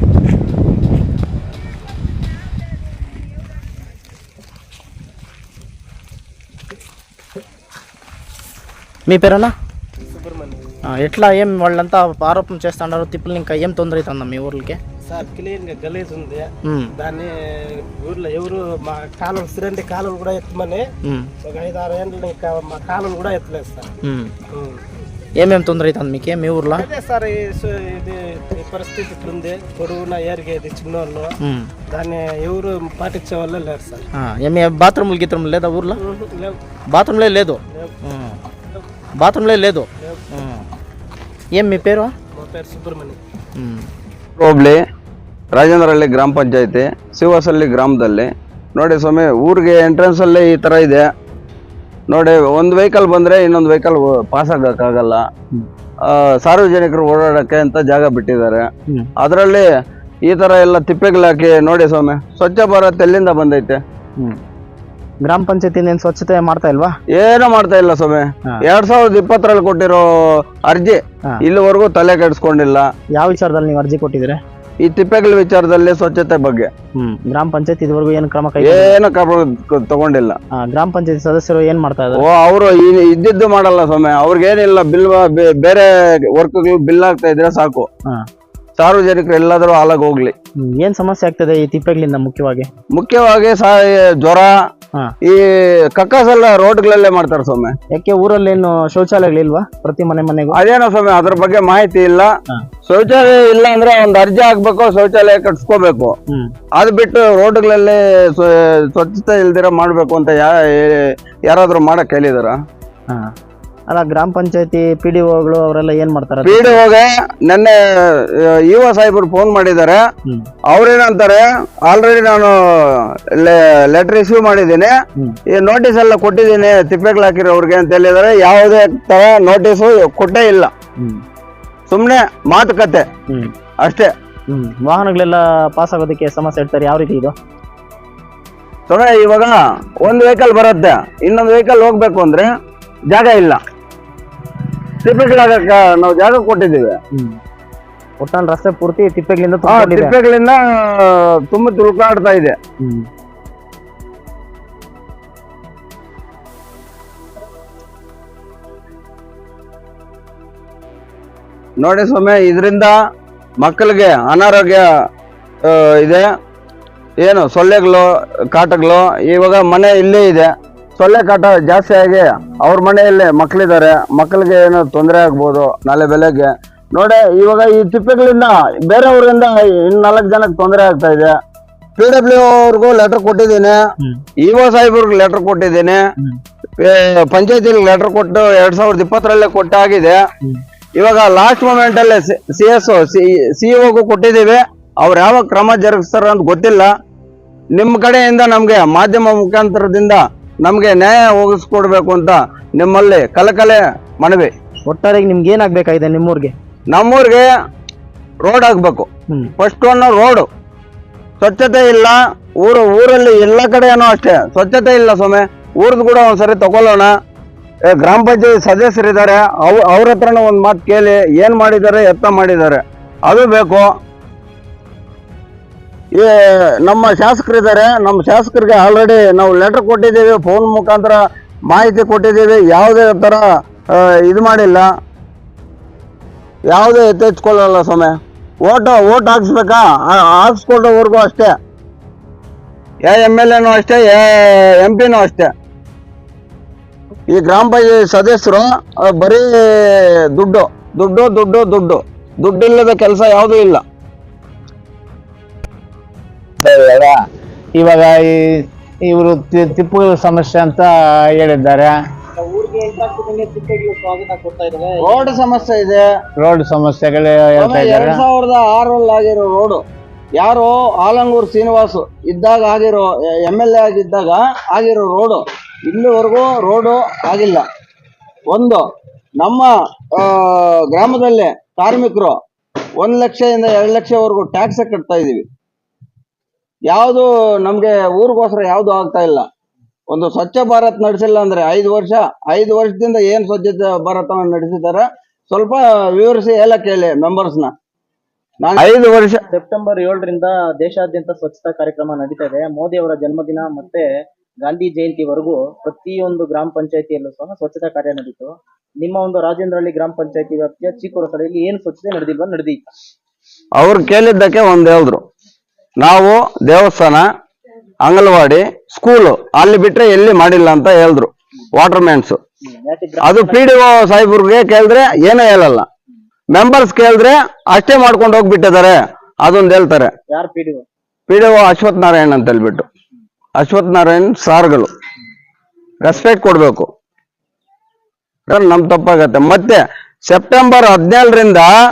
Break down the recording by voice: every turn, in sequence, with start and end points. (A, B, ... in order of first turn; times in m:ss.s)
0:09.1-0:09.5 A
0:10.1-0:10.6 B
0:10.9-0:14.8 A
0:15.0-0:20.9 B
0:16.7-0:16.9 A
0:21.0-0:21.3 A
0:21.4-0:23.9 B
0:24.0-0:24.3 A
0:24.5-0:24.8 B
0:25.4-0:26.9 A
0:26.7-0:31.3 B
0:31.4-0:31.7 A
0:31.9-0:34.1 B
0:34.1-0:36.0 A
0:36.0-0:36.6 B
0:36.9-0:38.4 A
0:37.7-0:38.0 B
0:39.2-0:40.6 A
0:41.6-0:42.1 A
0:42.3-0:43.2 B
0:43.6-0:43.9 A
0:44.4-0:44.8 C
0:45.5-0:51.1 C
0:52.1-0:55.2 C
0:56.0-0:58.6 C
0:59.2-0:59.6 C
1:00.3-1:03.8 C
1:05.2-1:06.9 A
1:07.1-1:10.0 C
1:10.7-1:12.9 C
1:13.2-1:14.4 A
1:14.8-1:16.7 C
1:16.9-1:19.0 A
1:18.6-1:20.4 C
1:20.6-1:22.2 A
1:22.1-1:27.9 C
1:28.8-1:30.3 C
1:30.6-1:32.7 A
1:32.9-1:34.5 C
1:35.9-1:37.7 C
1:37.9-1:40.6 A
1:40.5-1:42.3 C
1:42.8-1:46.1 C
1:46.8-1:52.6 C
1:53.9-1:56.8 A
1:56.4-1:57.8 C
1:58.7-2:00.0 C
2:00.7-2:02.5 C
2:03.4-2:04.9 C
2:05.5-2:10.7 C
2:11.9-2:13.0 C
2:13.8-2:14.1 C
2:14.5-2:17.3 A
2:18.9-2:22.5 C
2:23.1-2:23.6 C
2:25.0-2:27.0 C
2:27.1-2:27.4 A
2:28.2-2:30.1 A
2:29.6-2:32.5 C
2:32.8-2:33.1 A
2:41.8-2:42.9 C
2:43.6-2:44.8 C
2:45.7-2:46.2 C
2:47.2-3:01.4 C
3:02.0-3:03.8 C
3:04.4-3:06.0 C
3:06.8-3:10.2 C
3:11.0-3:16.9 C
3:17.7-3:24.5 C
3:24.8-3:26.5 A
3:26.9-3:27.5 C
3:28.4-3:30.5 C
3:31.4-3:37.1 C
3:37.9-3:43.9 C
3:46.2-3:54.9 C
3:56.7-4:01.5 C
4:03.0-4:05.5 C
4:07.3-4:13.8 C
4:16.6-4:17.2 D
4:17.8-4:21.9 D
4:22.4-4:25.4 A
4:25.0-4:26.0 C
4:26.4-4:28.2 D
4:27.6-4:29.8 C
4:30.4-4:37.6 C
4:38.5-4:38.8 C
4:39.4-4:42.3 C
4:43.0-4:45.4 C
4:46.9-4:49.4 C
4:50.1-4:57.7 C
4:58.6-4:59.4 C
4:59.5-5:04.0 A
5:04.6-5:12.8 A
5:13.8-5:15.2 C
5:16.0-5:17.2 C
5:18.0-5:22.4 C
5:22.6-5:23.7 A
5:23.2-5:25.8 C
5:26.5-5:30.1 C
5:30.3-5:30.8 A
5:31.3-5:32.8 C
5:33.6-5:34.9 C
5:36.0-5:36.9 C
5:38.5-5:41.7 C